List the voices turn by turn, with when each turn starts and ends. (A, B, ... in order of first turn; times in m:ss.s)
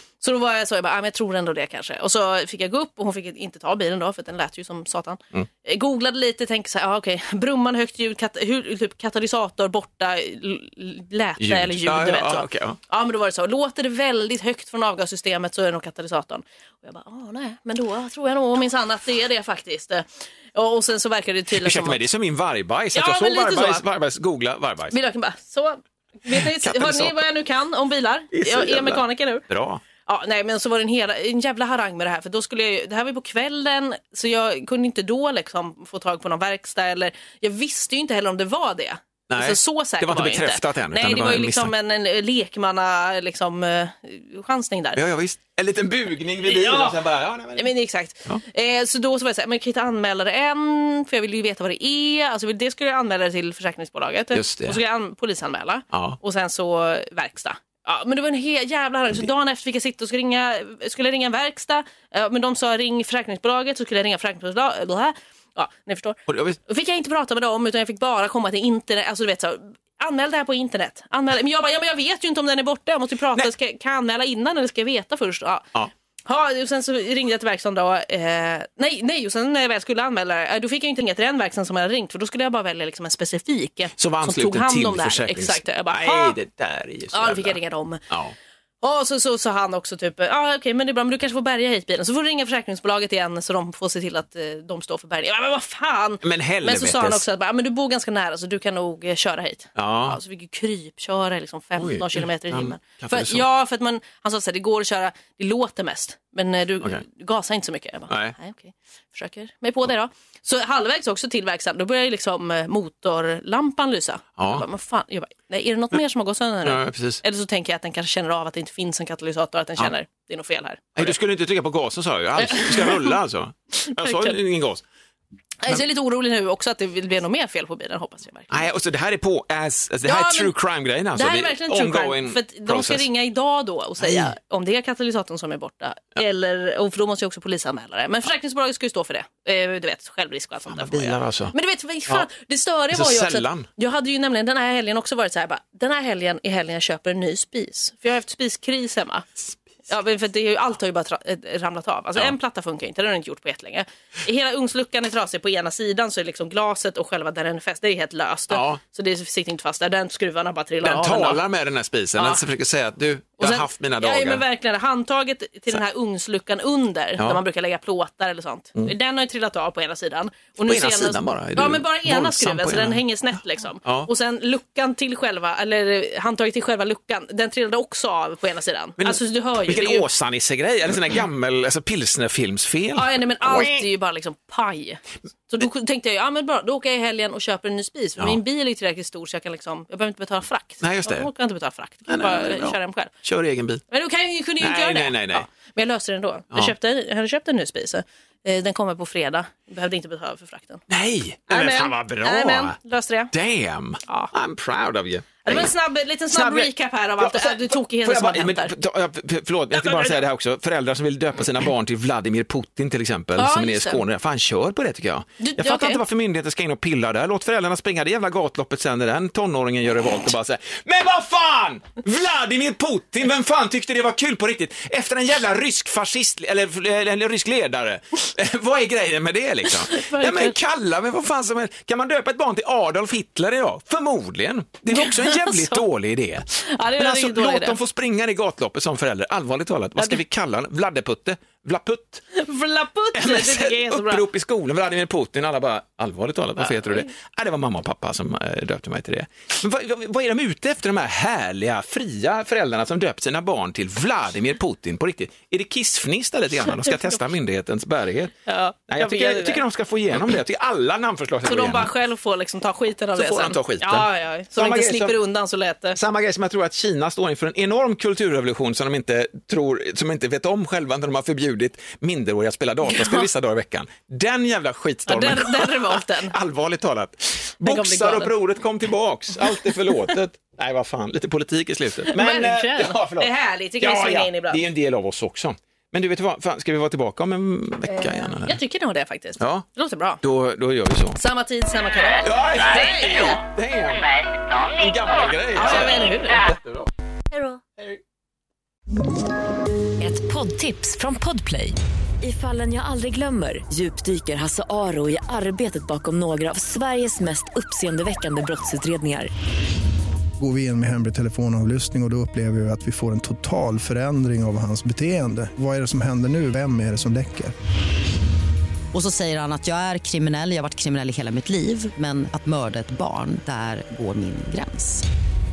0:00.2-0:22.0 A
0:11.4-0:12.8 B
0:21.6-0:25.0 B
0:23.0-0:23.8 A
0:24.9-0:29.4 A
0:26.3-0:27.2 B
0:28.3-0:29.8 B
0:30.0-0:45.0 A
0:39.3-0:41.7 B
0:45.0-0:47.7 B
0:46.4-0:47.0 A
0:47.6-1:15.7 A
0:54.3-0:54.8 B
0:55.9-0:56.2 B
1:06.3-1:06.6 B
1:16.3-1:26.4 A
1:24.0-1:27.6 B
1:27.1-1:28.0 A
1:28.1-1:28.4 B
1:28.8-2:01.2 A
1:36.2-1:37.2 B
1:39.8-1:40.2 B
1:41.8-1:43.5 B
1:48.1-1:48.4 B
1:54.4-1:54.7 B
1:56.6-1:57.2 B
2:01.0-2:04.8 B
2:02.4-2:03.2 A
2:03.8-2:04.4 A
2:05.6-2:08.7 A
2:08.5-2:13.1 B
2:10.1-2:10.5 A
2:11.2-2:29.3 A
2:14.0-2:14.3 B
2:20.7-2:21.6 B
2:22.9-2:23.7 B
2:29.9-2:41.4 A
2:38.5-2:38.8 B
2:40.8-2:44.4 B
2:42.2-2:42.4 A
2:43.4-3:00.0 A
2:50.7-2:53.0 B
2:53.8-2:54.1 B
2:59.0-3:03.8 B
3:03.0-3:13.1 A
3:10.8-3:11.3 B
3:12.1-3:13.8 B
3:13.9-3:20.8 A
3:14.6-3:15.5 B
3:20.9-3:22.8 B
3:21.5-3:23.3 A
3:23.3-3:25.7 B
3:25.4-3:28.7 A
3:26.3-4:02.2 B
3:29.7-3:30.2 A
3:33.4-3:34.0 A
3:35.4-3:36.0 A
3:49.7-3:50.6 A
3:54.9-3:55.8 A
3:56.5-3:57.8 A
4:02.3-4:04.2 A
4:03.1-4:18.3 B
4:06.6-4:07.1 A
4:16.7-4:17.2 A
4:18.5-4:19.6 A
4:18.9-4:21.9 B
4:21.4-4:26.0 A
4:23.2-4:25.2 B
4:26.0-4:48.6 B
4:32.9-4:33.3 A
4:35.1-4:36.3 A
4:37.6-4:38.3 A
4:42.1-4:44.6 A
4:47.9-4:50.2 A
4:49.4-4:49.7 B
4:50.2-4:51.2 B
4:51.2-4:53.4 A
4:52.2-4:56.9 B
4:55.6-4:56.4 A
5:00.0-5:09.3 C
5:10.4-5:17.5 D
5:18.9-5:25.0 E